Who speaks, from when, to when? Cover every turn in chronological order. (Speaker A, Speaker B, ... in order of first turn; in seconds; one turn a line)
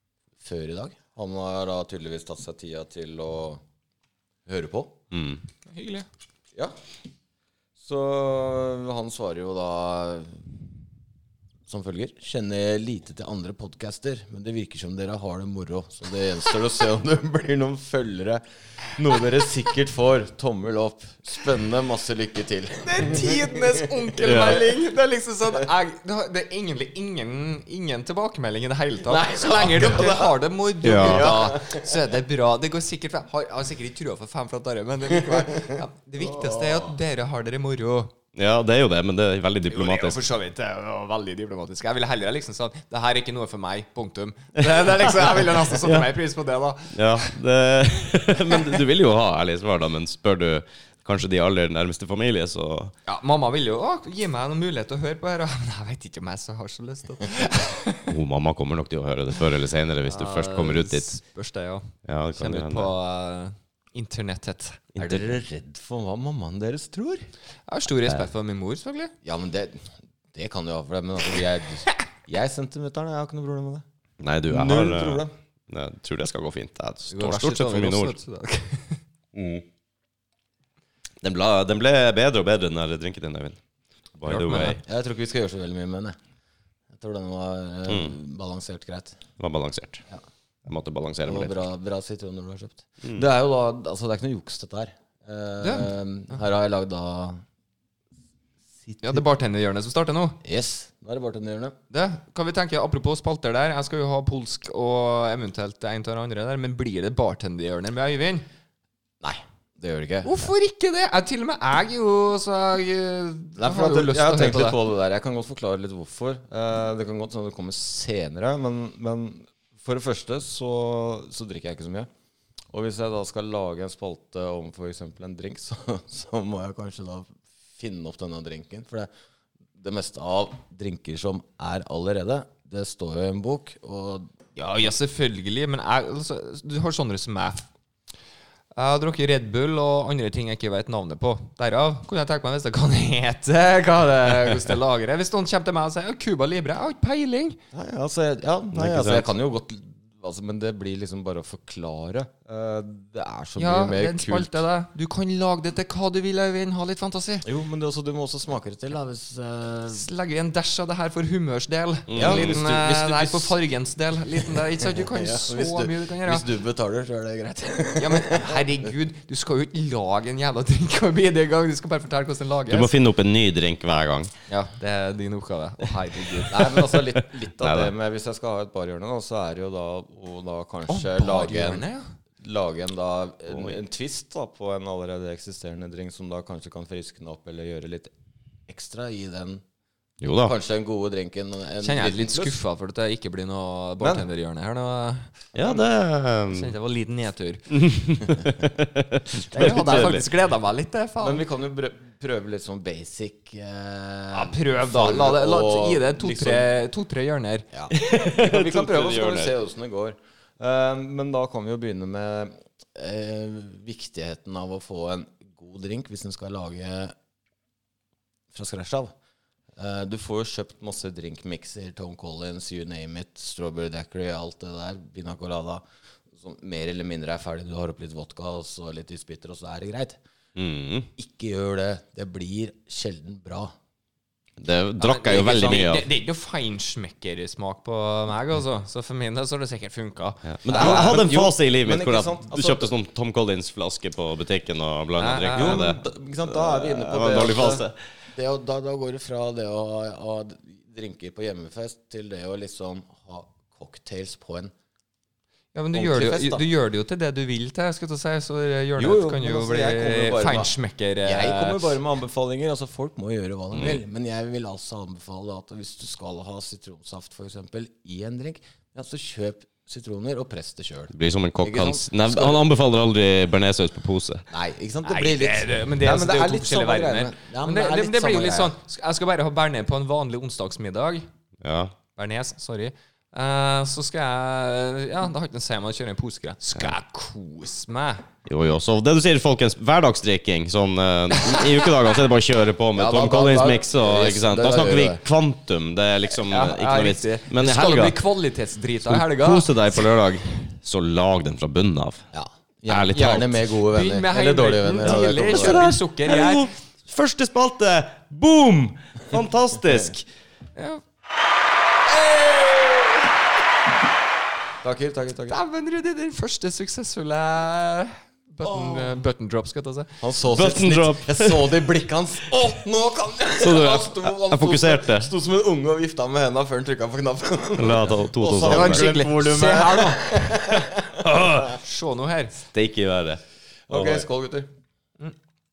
Speaker A: 0.4-3.6
Speaker A: 4.5-5.0
Speaker B: 5.1-5.4
Speaker C: 5.7-6.0
Speaker A: 7.8-10.4
Speaker A: 11.7-18.4
Speaker A: 18.9-24.5
Speaker C: 22.8-38.1
Speaker B: 24.2-24.6
Speaker A: 29.0-31.9
Speaker B: 30.8-31.4
Speaker A: 35.3-36.9
Speaker B: 38.3-40.2
Speaker C: 39.7-47.3
Speaker B: 44.7-45.1
Speaker B: 46.9-52.9
Speaker C: 53.0-58.1
Speaker B: 58.1-61.1
Speaker C: 60.1-65.4
Speaker B: 62.0-62.9
Speaker B: 65.0-65.2
Speaker A: 65.1-67.3
Speaker C: 67.7-69.1
Speaker A: 69.2-73.8
Speaker B: 74.2-78.2
Speaker A: 74.5-75.3
Speaker C: 77.1-79.0
Speaker B: 79.3-79.6
Speaker B: 81.2-83.6
Speaker B: 84.2-84.8
Speaker A: 84.3-86.2
Speaker C: 84.5-84.7
Speaker A: 87.0-89.2
Speaker B: 87.9-88.2
Speaker B: 89.4-90.0
Speaker B: 90.7-91.6
Speaker A: 91.2-97.4
Speaker C: 95.6-95.9
Speaker A: 98.9-99.2
Speaker C: 99.0-100.4
Speaker A: 100.4-101.7
Speaker C: 101.9-108.5
Speaker A: 109.2-110.5
Speaker C: 110.2-114.8
Speaker A: 113.6-122.1
Speaker A: 122.7-129.1
Speaker A: 129.8-134.3
Speaker C: 134.6-137.6
Speaker C: 138.7-147.6
Speaker A: 147.7-154.6
Speaker B: 148.7-149.3
Speaker C: 153.6-157.4
Speaker A: 157.4-160.1
Speaker C: 159.9-166.4
Speaker B: 162.1-162.6
Speaker A: 162.2-163.5
Speaker A: 164.4-168.6
Speaker C: 167.9-172.9
Speaker B: 172.7-174.3
Speaker C: 174.5-176.8
Speaker A: 176.5-181.8
Speaker B: 177.6-177.9
Speaker C: 180.9-182.0
Speaker A: 182.4-188.1
Speaker B: 183.5-183.8
Speaker A: 188.7-189.6
Speaker B: 190.2-190.5
Speaker A: 190.3-192.6
Speaker C: 191.8-195.3
Speaker A: 194.0-194.2
Speaker B: 195.5-196.7
Speaker A: 195.6-195.8
Speaker C: 196.5-197.7
Speaker B: 197.7-200.2
Speaker C: 199.4-201.4
Speaker A: 201.2-206.7
Speaker C: 204.3-207.7
Speaker A: 207.7-217.1
Speaker B: 207.9-209.5
Speaker A: 218.5-219.1
Speaker A: 219.8-225.8
Speaker A: 226.3-230.2
Speaker B: 230.6-231.1
Speaker A: 231.2-233.7
Speaker B: 234.6-236.1
Speaker C: 235.0-241.2
Speaker B: 240.4-247.9
Speaker A: 240.7-242.9
Speaker C: 245.2-246.0
Speaker A: 245.5-254.7
Speaker C: 255.7-262.0
Speaker A: 255.9-256.6
Speaker A: 259.0-260.7
Speaker A: 261.2-272.6
Speaker B: 263.7-264.0
Speaker B: 271.1-274.5
Speaker A: 274.5-278.7
Speaker C: 275.0-281.3
Speaker B: 281.6-281.9
Speaker C: 282.1-288.2
Speaker B: 288.4-298.2
Speaker C: 291.4-291.6
Speaker A: 292.9-295.2
Speaker C: 296.3-300.1
Speaker B: 299.0-302.2
Speaker A: 302.3-305.9
Speaker B: 302.9-303.6
Speaker C: 303.1-306.7
Speaker B: 305.0-310.2
Speaker C: 310.8-311.0
Speaker C: 312.1-313.3
Speaker A: 314.8-315.6
Speaker C: 315.5-320.2
Speaker A: 318.6-319.1
Speaker A: 320.2-331.6
Speaker B: 320.5-321.8
Speaker B: 323.6-325.3
Speaker B: 327.8-329.2
Speaker C: 328.6-330.6
Speaker B: 331.2-331.6
Speaker C: 331.6-332.6
Speaker B: 332.7-334.3
Speaker A: 333.9-334.7